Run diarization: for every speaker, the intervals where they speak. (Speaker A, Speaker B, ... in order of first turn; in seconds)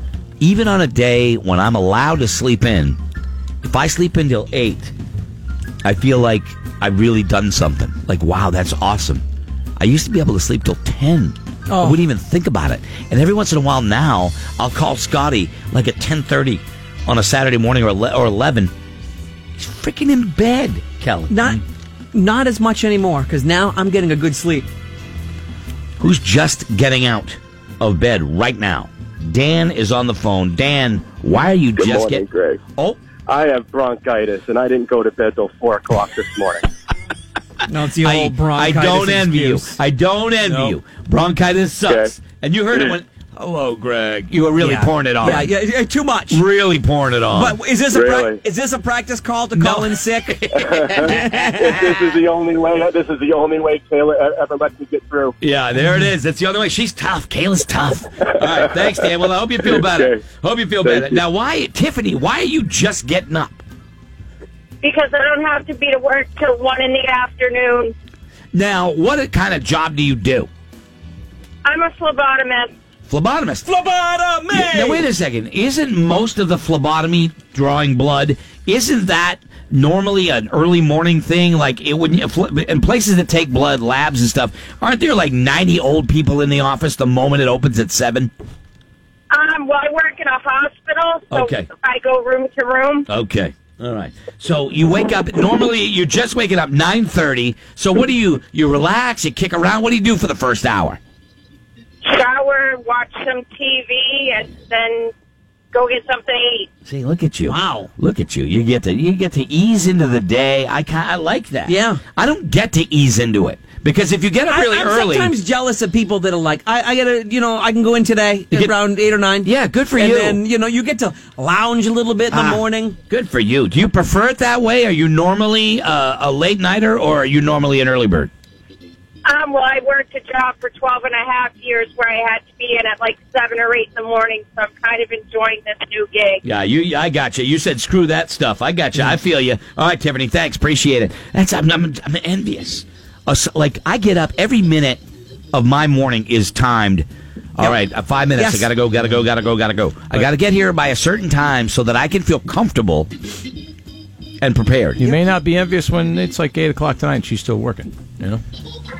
Speaker A: 0.4-3.0, 3.6-4.9, 5.8-9.2, 9.8-18.7, 19.6-21.6, 26.0-33.0, 38.0-45.5, 46.3-47.6, 49.5-50.9, 55.4-63.6, 68.5-70.5, 73.1-73.7, 74.5-88.3, 91.3-91.7, 93.1-101.0, 106.8-115.4, 119.4-120.4, 122.3-128.3, 136.4-145.0, 145.5-147.1, 147.6-153.1, 154.4-155.1
Speaker B: 11.7-12.0, 21.3-24.7, 37.7-39.8, 44.6-46.5, 47.3-52.0, 73.7-75.0, 107.5-107.9, 111.7-112.0, 114.4-123.0, 148.3-148.7
Speaker C: 31.8-32.6, 33.3-36.6, 41.9-42.1, 47.9-48.4, 50.5-55.4, 59.7-60.2, 60.8-61.2
Speaker D: 40.4-40.7, 155.0-158.4
Speaker E: 64.8-67.9, 71.7-72.7, 89.3-93.1, 102.0-105.1, 105.7-106.7, 129.2-136.4